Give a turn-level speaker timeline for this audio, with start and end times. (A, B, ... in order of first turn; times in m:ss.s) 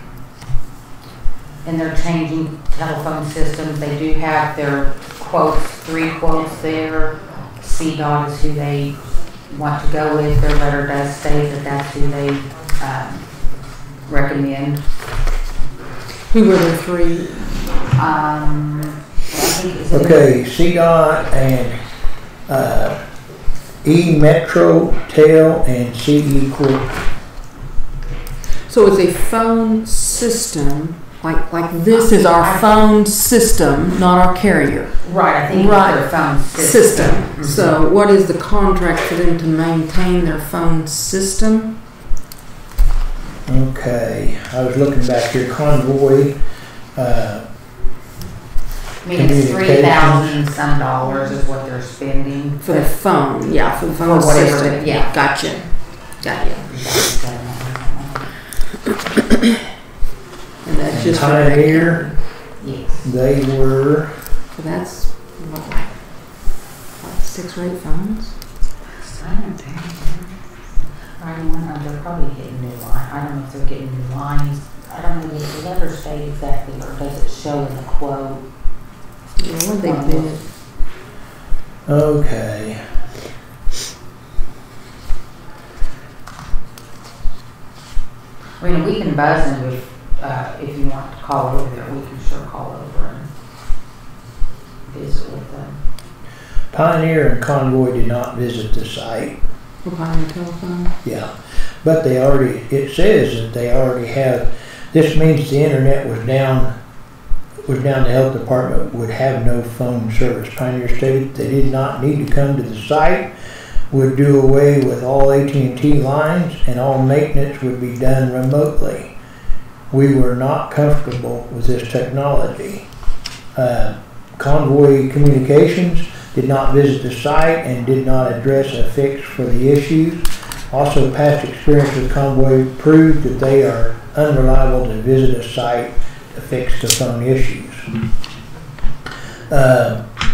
0:01.6-0:08.9 A
0:09.5-0:13.2 A
0:14.0-0:14.8 A
0:16.3-0:17.5 B
0:17.9-0:20.3 A
0:19.9-0:21.8 C
0:22.5-0:23.0 C
0:23.8-0:26.9 C
0:28.7-0:35.0 B
0:31.9-0:32.7 A
0:35.0-0:37.8 A
0:35.5-0:41.7 B
0:43.5-0:46.3 C
0:46.9-0:47.4 C
0:49.0-0:52.9 A
0:49.1-0:50.4 C
0:52.6-0:55.7 B
0:54.0-0:55.1 A
0:56.2-0:56.7 B
0:56.7-0:58.3 A
1:00.6-1:02.2 B
1:00.9-1:02.0 C
1:02.6-1:03.0 A
1:03.0-1:04.1 C
1:04.5-1:06.0 B
1:07.0-1:08.3 B
1:09.0-1:10.4 A
1:11.2-1:18.4 A
1:19.4-1:20.4 B
1:19.8-1:20.4 A
1:21.9-1:22.8 C
1:28.6-1:33.3 A
1:34.9-1:35.8 A
1:36.7-1:39.4 C
1:39.8-1:40.9 B
1:41.0-1:41.3 C
1:41.8-1:46.7 C
1:47.6-1:53.3 C
1:53.9-1:59.1 C
1:59.9-2:02.8 C
2:03.5-2:17.8 C
2:19.5-2:20.0 C